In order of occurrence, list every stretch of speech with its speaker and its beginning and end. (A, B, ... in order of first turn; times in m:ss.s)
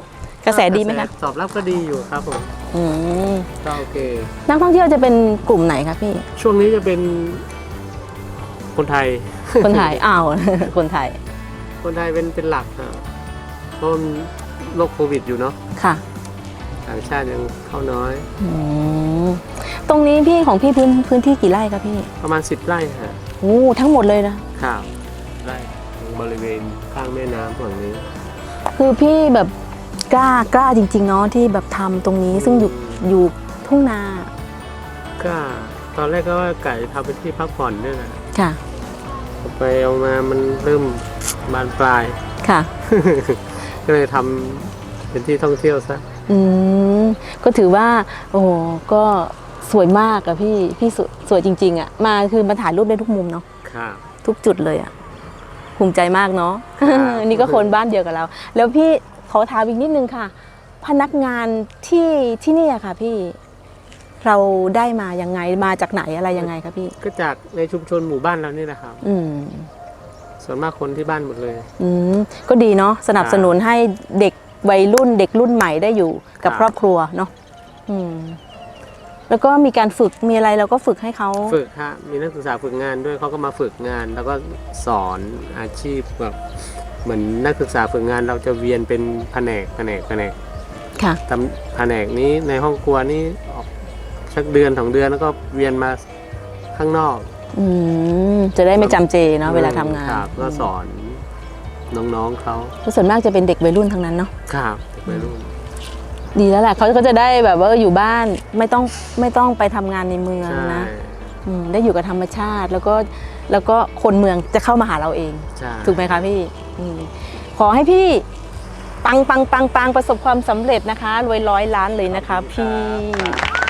0:00.4-0:01.1 A
0:00.5-0:02.5 B
0:02.7-0:03.5 A
0:03.6-0:04.3 B
0:04.5-0:06.2 A
0:06.4-0:07.5 B
0:08.7-0:10.0 B
0:09.6-0:11.2 A
0:11.8-0:13.0 B
0:13.8-0:15.6 B
0:15.8-0:16.0 A
0:16.8-0:18.3 B
0:18.4-0:22.1 A
0:22.2-0:23.2 B
0:23.4-0:24.4 A
0:24.6-0:24.9 B
0:25.4-0:28.1 B
0:28.7-0:29.5 A
0:30.1-0:34.3 A
0:32.3-0:33.0 B
0:35.2-0:38.2 B
0:38.3-0:38.6 A
0:39.4-0:42.2 B
0:42.4-0:42.7 A
0:42.8-0:46.0 B
0:46.3-0:53.4 A
0:53.6-0:54.0 B
0:54.2-0:54.9 A
0:55.8-1:03.4 A
0:56.8-0:57.7 B
1:04.2-1:06.9 A
1:07.0-1:09.0 B
1:09.0-1:09.7 A
1:10.4-1:11.7 B
1:11.8-1:17.3 A
1:13.2-1:13.5 B
1:16.4-1:16.7 B
1:17.9-1:18.4 A
1:19.3-1:21.6 A
1:21.5-1:26.4 B
1:27.0-1:30.4 B
1:31.3-1:33.7 B
1:34.3-1:36.0 B
1:36.7-1:37.3 B
1:37.5-1:40.7 A
1:38.7-1:41.3 B
1:41.9-1:42.7 B
1:42.8-1:44.3 A
1:44.5-1:45.5 B
1:46.3-1:50.9 A
1:50.4-1:51.4 B
1:51.4-1:58.2 A
1:55.6-1:56.1 B
1:59.0-2:03.4 A
2:02.1-2:03.4 B